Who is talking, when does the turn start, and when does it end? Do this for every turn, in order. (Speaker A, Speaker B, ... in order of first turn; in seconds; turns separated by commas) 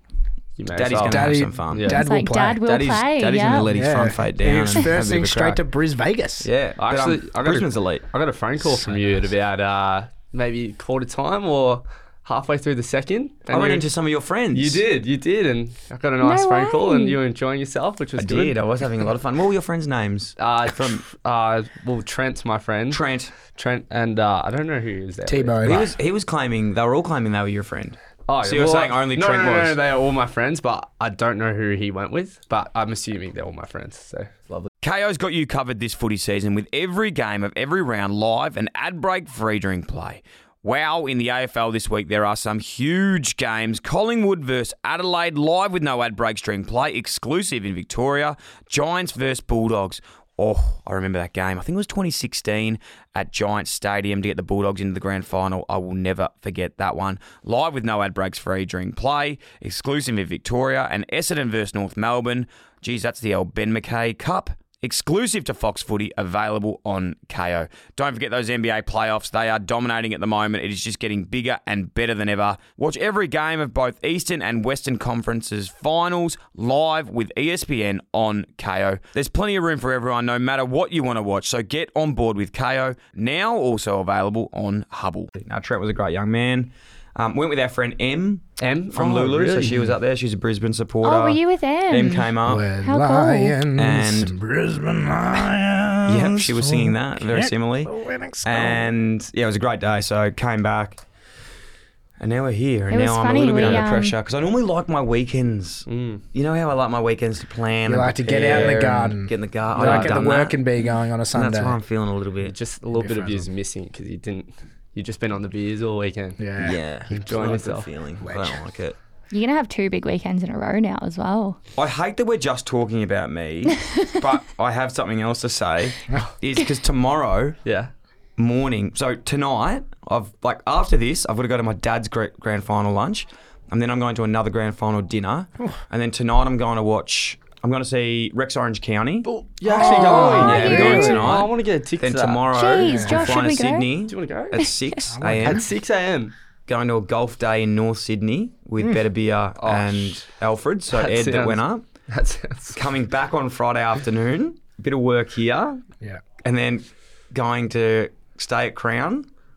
Speaker A: 0.6-2.0, Speaker B: 0.7-2.0, Speaker C: 1.1-2.6, Speaker D: 1.9-3.7, Speaker B: 2.6-5.6, Speaker C: 3.6-6.5, Speaker B: 6.4-8.0, Speaker A: 6.8-13.9, Speaker B: 13.5-14.8, Speaker A: 14.5-18.6, Speaker D: 16.2-17.2, Speaker B: 18.2-21.0, Speaker A: 20.4-25.8, Speaker B: 22.9-23.3, Speaker C: 25.3-25.9, Speaker B: 25.6-29.8, Speaker A: 28.3-34.7, Speaker B: 34.8-92.7, Speaker A: 88.6-89.9, Speaker D: 91.0-93.6, Speaker C: 92.4-98.9, Speaker B: 93.8-94.3, Speaker B: 96.0-97.9, Speaker B: 98.4-101.0, Speaker B: 102.2-110.6, Speaker D: 102.9-104.2, Speaker A: 103.6-103.9, Speaker A: 105.9-106.2, Speaker C: 107.9-111.8, Speaker A: 108.4-108.8, Speaker A: 109.8-110.3, Speaker B: 111.3-112.5, Speaker A: 112.4-116.4, Speaker C: 112.9-113.5, Speaker C: 116.4-117.5, Speaker B: 116.6-119.0, Speaker A: 117.1-117.9, Speaker C: 118.2-118.6, Speaker D: 119.3-121.6, Speaker B: 121.8-127.6, Speaker D: 123.8-124.0, Speaker A: 127.6-127.9, Speaker B: 128.4-139.3, Speaker A: 139.2-142.5, Speaker C: 139.7-141.3, Speaker D: 139.7-141.3, Speaker B: 139.9-145.7, Speaker D: 142.5-143.9, Speaker C: 142.8-143.4, Speaker A: 144.1-144.7, Speaker C: 145.1-145.7, Speaker A: 145.4-146.3, Speaker B: 146.7-151.8, Speaker A: 149.6-150.2, Speaker A: 150.9-152.8, Speaker B: 152.7-155.8, Speaker B: 156.4-159.3